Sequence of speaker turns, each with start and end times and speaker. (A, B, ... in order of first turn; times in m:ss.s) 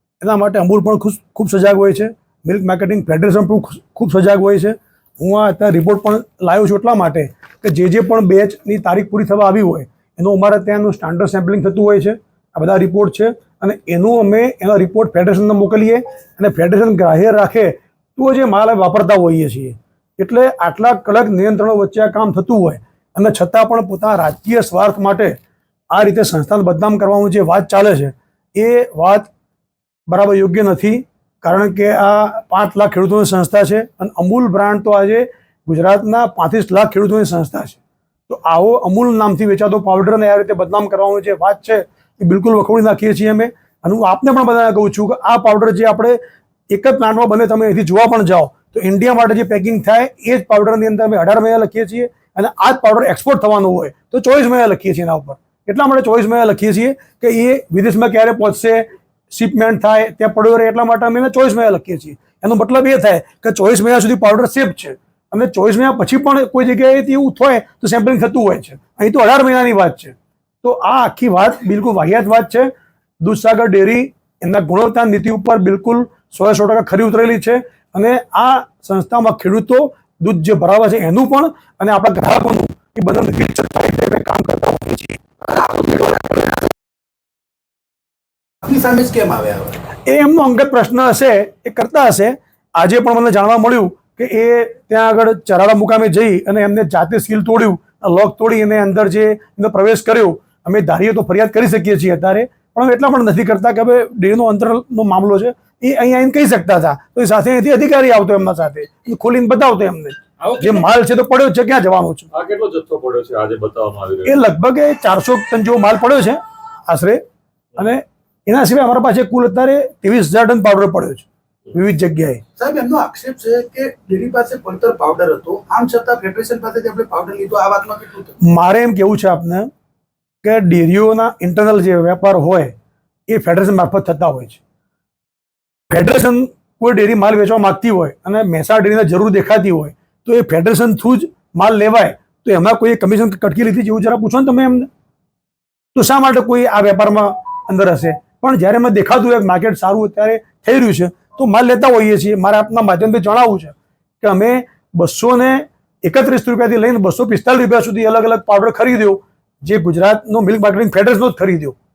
0:00.2-0:25.4 A
0:25.9-0:29.3 A
0:30.1-0:46.2 A
0:46.7-1:25.2 A
1:25.5-1:26.6 B
1:28.7-1:29.7 B
1:30.1-1:52.3 A
1:50.4-1:50.8 C
1:52.3-1:54.3 C
1:54.2-1:57.2 A
1:57.8-2:02.4 A
2:02.6-2:08.3 B
2:08.4-2:09.7 A
2:10.4-2:12.7 A
2:13.3-2:14.6 A
2:15.9-2:24.9 A
2:25.9-2:41.8 A